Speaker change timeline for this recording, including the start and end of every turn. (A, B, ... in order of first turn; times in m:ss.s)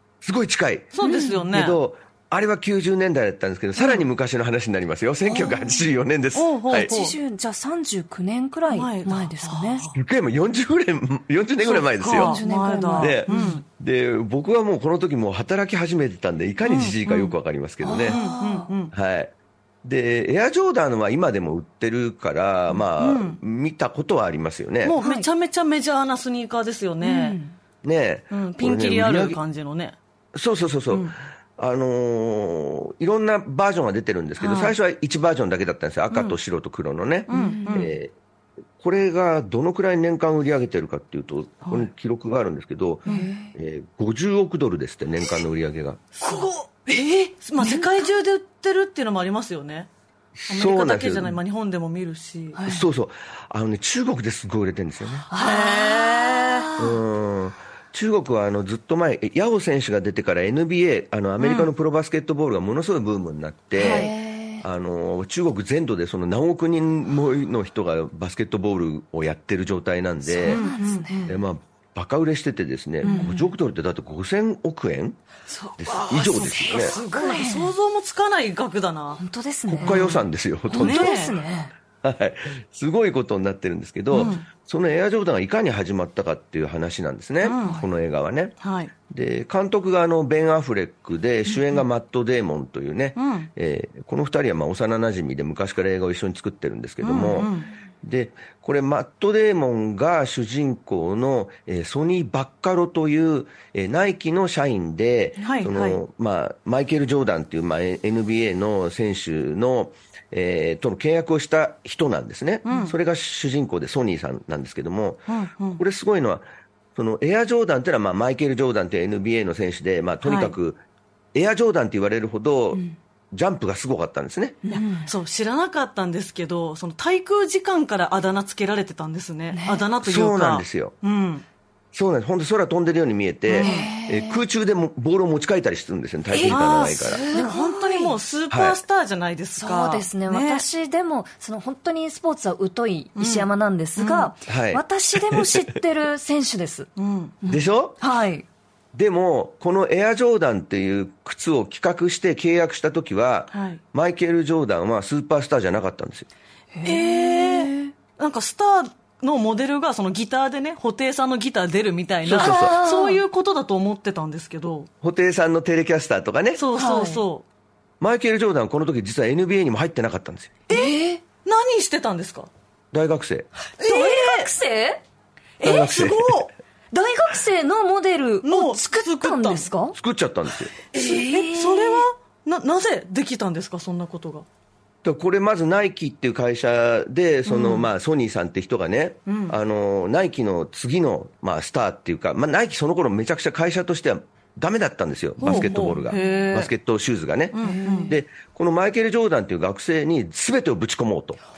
0:00.2-0:01.0 A
0:00.9-0:01.8 B
0:01.0-0:01.5 C
0:01.5-0:06.9 A
0:03.8-0:04.0 B
0:05.2-0:05.9 C
0:06.3-0:07.2 B
0:06.8-0:09.8 C
0:08.7-0:10.0 B
0:09.9-0:12.4 A
0:11.6-0:13.6 B
0:12.1-0:13.6 C
0:13.0-0:18.2 A
0:16.6-0:17.3 B
0:17.8-0:18.7 C
0:18.0-0:18.9 B
0:18.9-0:19.3 A
0:19.8-0:25.0 A
0:22.8-0:23.4 B
0:24.8-0:27.4 B
0:25.0-0:25.3 C
0:27.0-0:27.5 C
0:27.8-0:29.4 A
0:28.3-0:30.0 B
0:30.3-0:38.1 A
0:34.4-0:34.7 B
0:36.1-0:36.4 B
0:37.3-0:37.9 B
0:37.3-0:37.9 C
0:38.8-0:46.2 A
0:43.0-0:43.5 C
0:46.2-0:49.9 B
0:47.6-0:48.1 C
0:50.4-0:51.4 A
0:50.5-0:52.6 B
0:52.5-0:52.8 C
0:52.6-0:55.3 A
0:55.3-0:57.0 C
0:55.3-0:56.7 B
0:56.8-1:10.7 A
1:01.4-1:01.7 B
1:03.8-1:04.1 B
1:03.8-1:04.6 C
1:10.2-1:11.3 C
1:10.4-1:11.3 B
1:11.2-1:15.2 A
1:13.0-1:13.3 B
1:13.0-1:13.5 C
1:15.5-1:17.7 C
1:15.8-1:17.0 A
1:15.9-1:19.2 B
1:19.2-1:20.1 C
1:19.7-1:21.4 A
1:19.8-1:21.3 B
1:20.7-1:21.7 C
1:22.0-1:28.6 A
1:24.1-1:24.4 B
1:27.4-1:27.8 B
1:28.6-1:28.9 B
1:29.1-1:56.4 A
1:33.2-1:33.5 B
1:37.0-1:37.7 B
1:45.4-1:46.0 B
1:52.6-1:52.9 B
1:55.3-1:55.8 B
1:57.0-2:00.8 A
2:00.2-2:00.5 B
2:01.3-2:04.6 A
2:04.6-2:05.1 C
2:04.7-2:11.4 B
2:09.5-2:09.8 C
2:10.0-2:10.9 A
2:11.9-2:17.2 A
2:13.5-2:13.9 B
2:13.6-2:14.4 C
2:16.3-2:18.2 C
2:16.5-2:20.6 B
2:18.5-2:18.8 A
2:19.6-2:26.9 C
2:23.2-2:24.3 B
2:24.5-2:25.7 A
2:27.0-2:27.4 B
2:27.4-2:28.4 C
2:27.5-2:28.0 A
2:28.9-2:36.3 A
2:33.5-2:33.8 B
2:36.7-2:37.9 C
2:36.8-2:44.9 B
2:42.2-2:42.8 A
2:42.4-2:43.2 C
2:45.0-2:46.6 A
2:46.6-2:47.4 B
2:46.7-2:47.2 C
2:48.0-2:50.6 A
2:50.7-2:52.5 B
2:50.7-2:51.2 C
2:52.9-2:53.5 A
2:53.8-2:54.5 B
2:53.8-2:55.0 C
2:55.6-2:56.5 B
2:55.6-2:56.5 A
2:56.9-3:00.0 C
2:58.4-2:59.7 B
2:59.9-3:00.7 A
3:00.9-3:04.4 B
3:00.9-3:02.1 C
3:05.0-3:21.4 A
3:07.4-3:07.9 B
3:09.3-3:09.6 B
3:15.4-3:16.7 B
3:15.5-3:16.4 C
3:17.5-3:18.2 B
3:17.6-3:18.1 C